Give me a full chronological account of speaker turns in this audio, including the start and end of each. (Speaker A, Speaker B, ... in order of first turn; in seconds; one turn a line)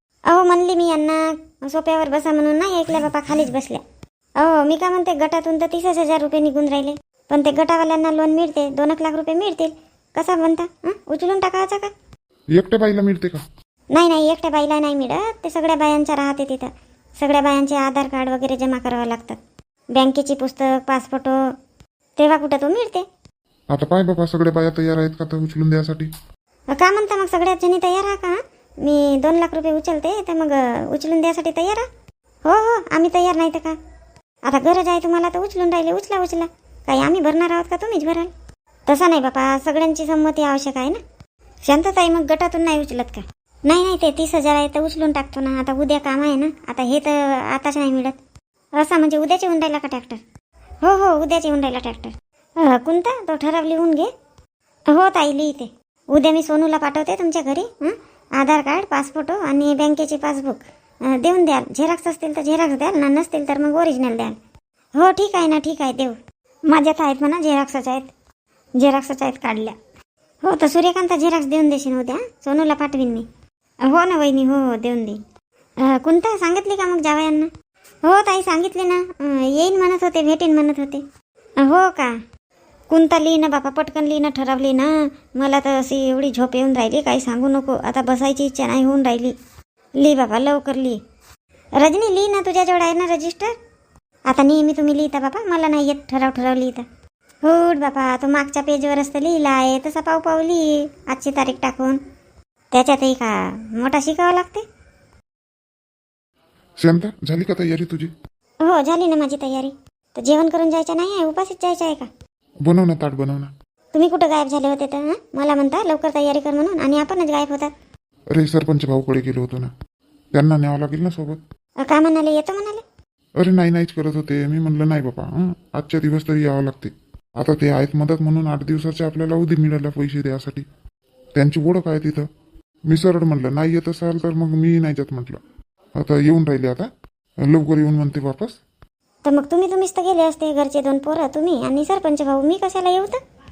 Speaker A: 0.3-3.8
Speaker A: 4.4-11.9
Speaker B: 12.5-13.4
Speaker A: 13.9-19.4
Speaker A: 19.9-21.4
Speaker A: 22.2-23.0
Speaker B: 23.7-26.1
Speaker A: 26.7-31.9
Speaker A: 32.5-33.8
Speaker A: 34.4-38.3
Speaker A: 38.9-41.0
Speaker A: 41.6-48.2
Speaker A: 48.8-50.2
Speaker A: 50.8-54.1
Speaker A: 54.9-64.4
Speaker A: 65.0-66.2
Speaker A: 66.7-68.1
Speaker A: 68.8-69.8
Speaker A: 70.4-73.3
Speaker A: 73.8-75.2
Speaker A: 75.8-77.5
Speaker A: 78.0-81.0
Speaker A: 81.6-82.1
Speaker A: 82.9-89.3
Speaker A: 90.0-91.0
Speaker A: 91.8-93.5
Speaker A: 94.3-96.8
Speaker A: 97.4-102.0
Speaker A: 102.7-104.6
Speaker B: 106.8-108.1
Speaker A: 108.6-112.1
Speaker B: 112.6-113.5
Speaker A: 113.9-117.7
Speaker B: 118.3-119.7
Speaker B: 120.3-121.4
Speaker A: 121.8-122.8
Speaker B: 123.4-130.7
Speaker B: 131.3-132.2
Speaker B: 132.9-135.4
Speaker B: 135.9-136.9
Speaker B: 137.4-138.6
Speaker A: 139.2-143.2